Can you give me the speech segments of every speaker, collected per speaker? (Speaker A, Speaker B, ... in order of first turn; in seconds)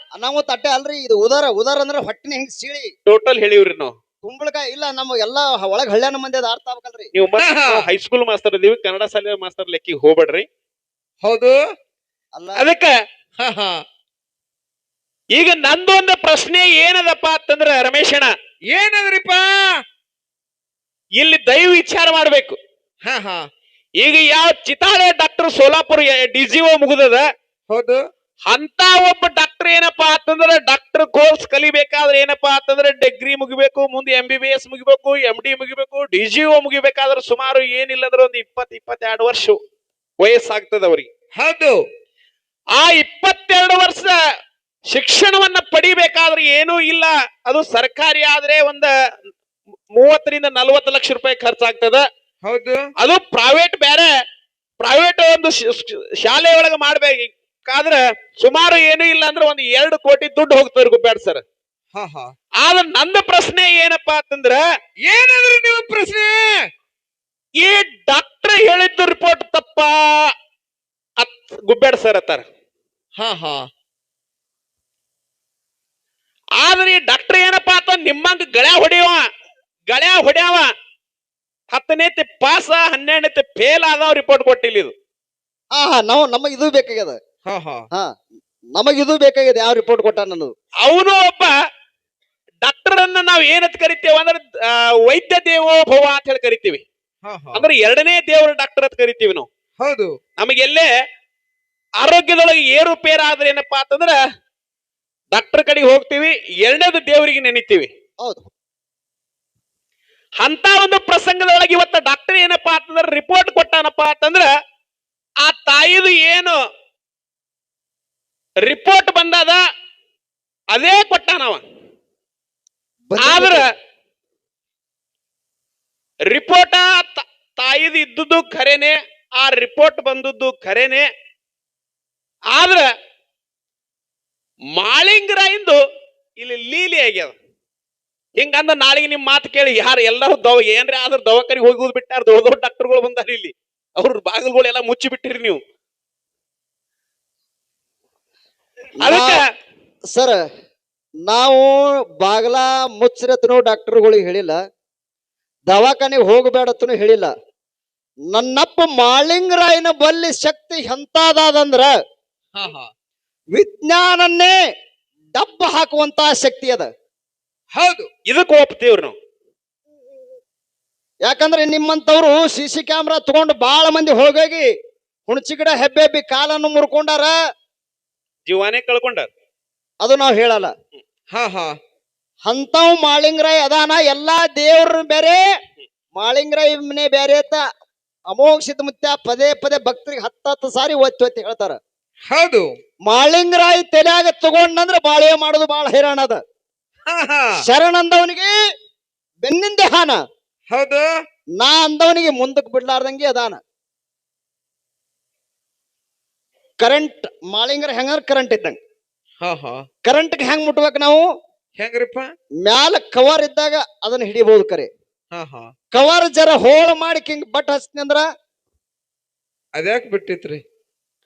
Speaker A: 0.1-2.9, 4.2-7.1, 12.3-12.6, 85.7-87.2, 88.7-90.5, 123.1-123.7, 149.0-149.4, 150.1-150.4, 151.2-154.6, 155.7-157.3, 158.3-161.9, 163.5-164.6, 165.3-166.9, 171.2-174.7, 175.3-177.3, 180.0-180.7, 182.4-185.4, 186.2-187.6, 188.3-191.8, 193.1-196.4, 197.6-198.5, 199.4-200.2, 201.6-203.6, 206.8-208.8, 210.0-211.2, 212.6-214.9, 215.9-218.2
Speaker B: 3.1-3.9, 7.1-10.4, 12.6-12.9, 15.3-18.3, 21.2-22.6, 24.0-27.2, 28.5-39.6, 40.2-41.1, 42.8-44.1, 44.9-48.9, 49.9-52.0, 53.0-54.1, 54.8-61.4, 62.6-64.6, 67.6-70.3, 71.2-72.5, 76.6-79.2, 79.9-80.7, 81.7-84.9, 90.8-91.5, 92.6-96.8, 97.5-99.5, 100.4-100.9, 102.0-104.2, 105.3-107.9, 110.4-114.5, 115.4-116.6, 118.6-119.6, 120.7-121.6, 123.2-123.7, 126.3-131.1, 132.5-132.9, 134.7-135.8, 136.4-137.3, 138.4-145.6, 149.0-149.4, 168.2-169.1, 178.4-179.3
Speaker C: 7.4-7.8, 11.2-11.6, 13.4-13.8, 18.7-19.8, 23.1-23.4, 27.7-28.0, 41.4-41.8, 52.4-52.8, 61.9-62.3, 65.0-66.7, 73.2-73.7, 87.5-87.8, 97.2-97.7, 99.8-100.2, 162.6-162.9, 167.7-168.1, 181.3-181.7, 192.3-192.8, 197.1-197.6, 200.7-201.1, 209.4-209.8, 211.8-212.3, 215.3-215.7, 219.8-220.6